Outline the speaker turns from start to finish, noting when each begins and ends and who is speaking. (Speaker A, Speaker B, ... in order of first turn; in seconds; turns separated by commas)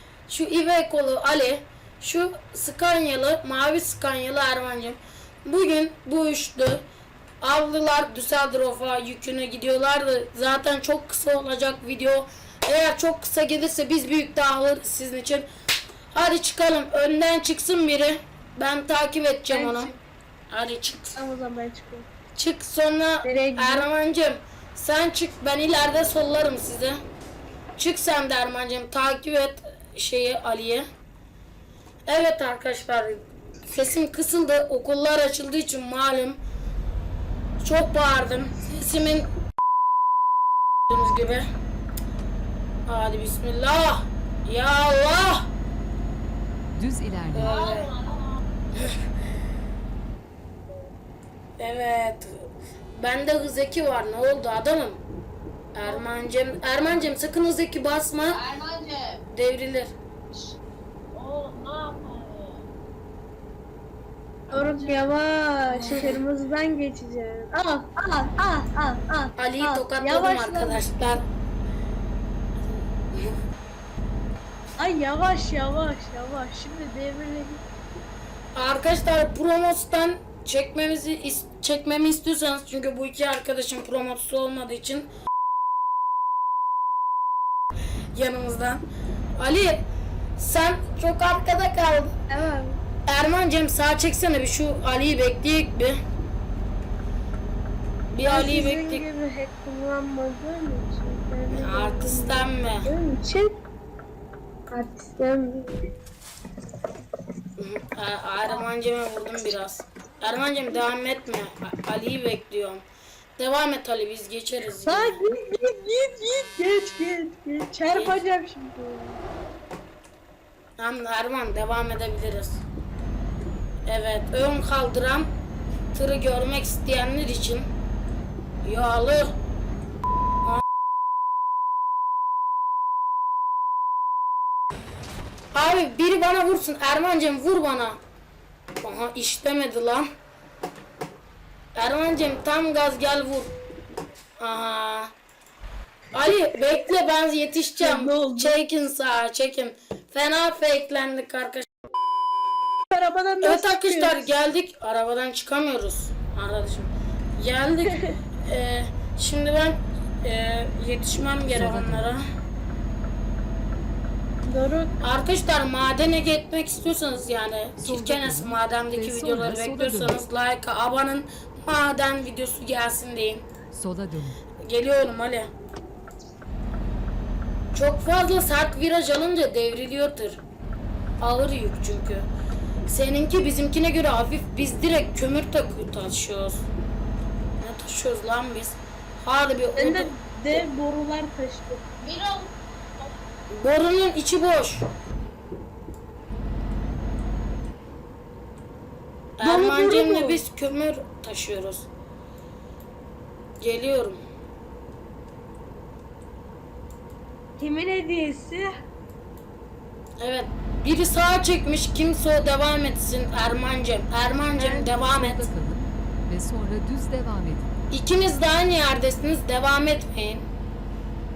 Speaker A: 0.3-6.8, Speaker A: 7.4-15.5, Speaker A: 16.1-19.9, Speaker B: 19.5-19.9, Speaker A: 20.5-21.2, Speaker B: 21.1-22.1, Speaker A: 22.4-27.0, Speaker B: 23.2-23.9, Speaker A: 27.8-30.9, Speaker A: 32.1-36.4, Speaker A: 37.6-39.3, Speaker A: 40.9-41.5, Speaker A: 42.9-45.5, Speaker C: 46.7-47.7, Speaker A: 47.3-48.0, Speaker D: 47.4-48.4, Speaker A: 51.6-55.0, Speaker A: 55.8-58.5, Speaker D: 58.4-59.2, Speaker A: 59.3-59.9, Speaker D: 61.1-62.6, Speaker B: 64.5-70.8, Speaker D: 64.6-65.0, Speaker D: 65.8-66.0, Speaker A: 69.4-71.3, Speaker B: 74.8-77.6, Speaker A: 78.5-85.1, Speaker A: 88.2-88.8, Speaker A: 89.4-89.8, Speaker A: 90.4-92.1, Speaker B: 92.3-92.8, Speaker A: 93.1-96.0, Speaker A: 98.1-99.0, Speaker B: 98.2-103.6, Speaker A: 101.5-102.9, Speaker B: 104.7-105.7, Speaker A: 107.6-112.8, Speaker A: 113.4-115.2, Speaker B: 114.9-119.2, Speaker A: 117.9-118.2, Speaker A: 120.8-122.6, Speaker A: 123.9-125.3, Speaker A: 125.9-127.7, Speaker A: 128.7-129.4, Speaker A: 135.5-138.0, Speaker A: 138.8-140.1, Speaker A: 141.8-143.5, Speaker A: 144.4-145.1, Speaker A: 146.1-151.7, Speaker B: 147.8-148.6, Speaker B: 152.9-154.3, Speaker A: 153.4-162.3, Speaker C: 161.5-162.1, Speaker B: 164.5-164.9, Speaker A: 165.0-173.5, Speaker C: 167.8-170.2, Speaker C: 173.7-174.4, Speaker A: 174.7-175.5, Speaker A: 177.7-180.4, Speaker A: 181.2-182.3, Speaker A: 182.9-186.7, Speaker A: 187.6-190.1, Speaker B: 189.8-191.9, Speaker D: 192.0-193.1, Speaker A: 193.5-194.9, Speaker A: 199.4-201.9, Speaker B: 199.4-200.4, Speaker A: 203.6-204.2, Speaker B: 207.6-208.7, Speaker A: 210.2-215.5, Speaker B: 214.5-214.9, Speaker C: 214.9-217.7, Speaker A: 217.9-220.4